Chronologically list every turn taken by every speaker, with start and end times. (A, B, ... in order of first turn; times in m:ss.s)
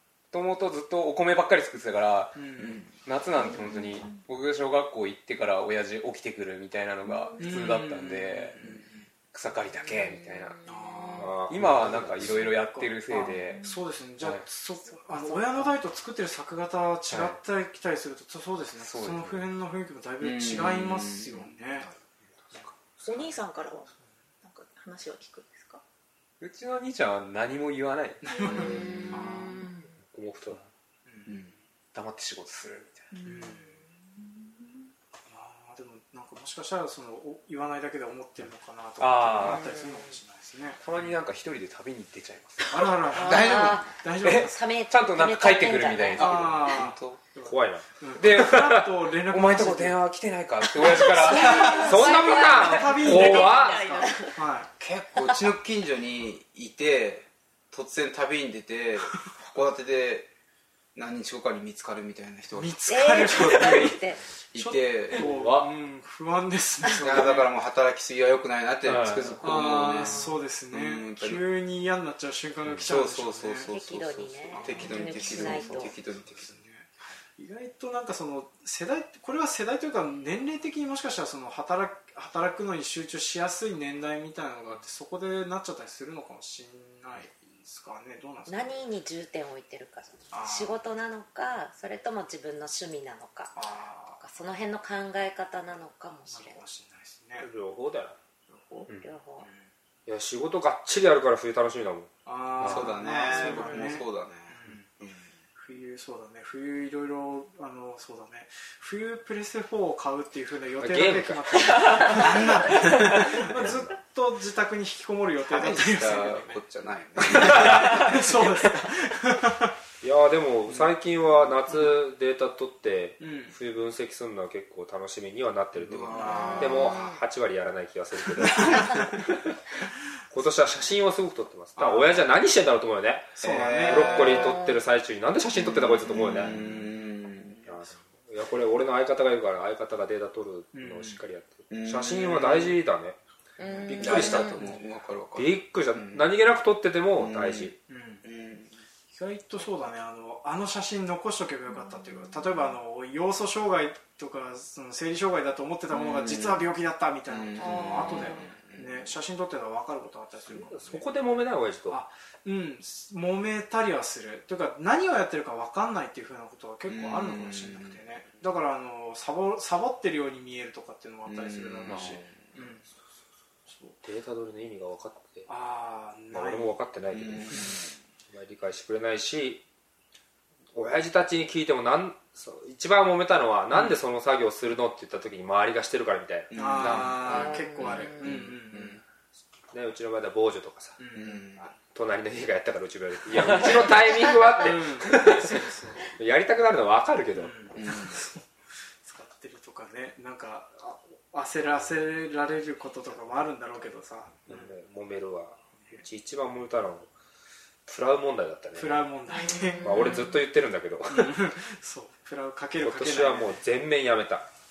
0:00.3-0:08.6 A
0:02.3-0:02.8 B
0:02.6-0:02.8 C
0:03.5-0:04.2 D
0:07.0-0:07.7 D
0:07.4-0:09.1 B
0:09.3-0:10.7 A
0:10.6-0:21.9 B
0:11.2-0:12.3 E
0:11.5-0:14.4 A
0:13.5-0:13.8 D
0:17.1-0:17.4 A
0:18.8-0:19.5 A
0:20.2-0:21.5 C
0:23.0-0:23.9 D
0:24.4-0:25.8 D
0:26.4-0:28.2 A
0:28.2-0:29.6 B
0:28.5-0:29.7 F
0:29.3-0:29.7 D
0:30.0-0:30.6 E
0:31.0-0:31.4 B
0:31.3-0:31.5 C
0:31.9-0:33.2 A
0:33.1-0:34.7 D
0:33.2-0:33.8 B
0:35.3-0:40.8 B
0:39.0-0:39.7 A
0:39.4-0:40.2 F
0:40.8-0:42.9 A
0:42.7-0:44.5 B
0:43.1-0:43.9 C
0:43.1-0:46.5 F
0:44.2-0:46.8 A
0:46.2-0:50.0 B
0:46.2-0:47.2 C
0:47.4-0:48.9 E
0:48.2-0:48.6 A
0:49.2-0:53.0 A
0:51.1-0:54.3 D
0:51.1-0:54.7 B
0:51.3-0:54.3 F
0:51.7-0:54.1 E
0:54.8-1:00.3 C
1:00.9-1:03.9 C
1:02.5-1:04.0 B
1:02.9-1:04.2 F
1:04.5-1:05.3 C
1:04.5-1:07.5 B
1:05.2-1:05.7 E
1:07.0-1:11.4 C
1:08.8-1:10.2 E
1:09.4-1:13.7 B
1:12.8-1:16.5 C
1:13.7-1:15.9 F
1:14.5-1:28.8 B
1:28.5-1:33.6 F
1:30.3-1:30.8 B
1:33.5-1:34.2 B
1:34.2-1:36.6 F
1:36.3-1:37.5 B
1:37.4-1:38.2 E
1:38.5-1:38.9 B
1:39.0-1:39.5 F
1:39.4-1:39.7 B
1:40.1-1:43.8 E
1:42.2-1:44.9 B
1:42.6-1:45.3 C
1:45.6-1:56.6 B
1:50.8-1:53.9 E
1:52.1-1:53.5 C
1:55.4-1:58.4 C
1:57.2-1:59.7 B
2:00.0-2:09.4 E
2:01.7-2:01.9 B
2:03.2-2:03.6 B
2:05.8-2:07.0 C
2:06.1-2:06.8 B
2:06.3-2:07.2 F
2:08.4-2:09.2 B
2:10.3-2:16.6 E
2:11.8-2:12.2 B
2:13.4-2:14.4 B
2:13.4-2:14.6 C
2:15.5-2:17.7 C
2:16.5-2:16.8 B
2:17.6-2:23.2 E
2:20.7-2:21.2 B
2:21.7-2:22.8 C
2:23.6-2:24.6 F
2:23.8-2:24.8 E
2:24.0-2:26.3 C
2:25.3-2:27.8 E
2:27.2-2:27.7 C
2:27.9-2:28.2 B
2:28.2-2:28.7 C
2:29.1-2:41.1 B
2:35.9-2:36.7 C
2:37.3-2:39.1 C
2:37.6-2:38.4 F
2:40.5-2:42.0 E
2:41.9-2:52.8 B
2:46.8-2:48.0 C
2:51.2-2:52.6 C
2:51.9-2:52.2 E
2:53.7-2:54.0 B
2:54.0-2:55.5 E
2:55.5-2:56.8 B
2:56.3-2:57.8 E
2:57.1-2:57.9 C
2:58.3-2:59.6 E
3:00.7-3:07.2 E
3:03.7-3:04.0 B
3:06.5-3:09.0 C
3:06.5-3:09.0 B
3:07.2-3:08.4 F
3:09.7-3:11.0 E
3:11.0-3:11.4 B
3:11.1-3:11.7 C
3:11.6-3:17.6 E
3:14.5-3:16.1 B
3:17.3-3:18.4 B
3:17.8-3:18.2 C
3:19.0-3:24.7 B
3:24.5-3:27.1 E
3:27.8-3:29.0 E
3:28.7-3:30.2 B
3:29.4-3:30.2 F
3:29.8-3:31.4 E
3:31.1-3:33.6 B
3:32.8-3:34.5 E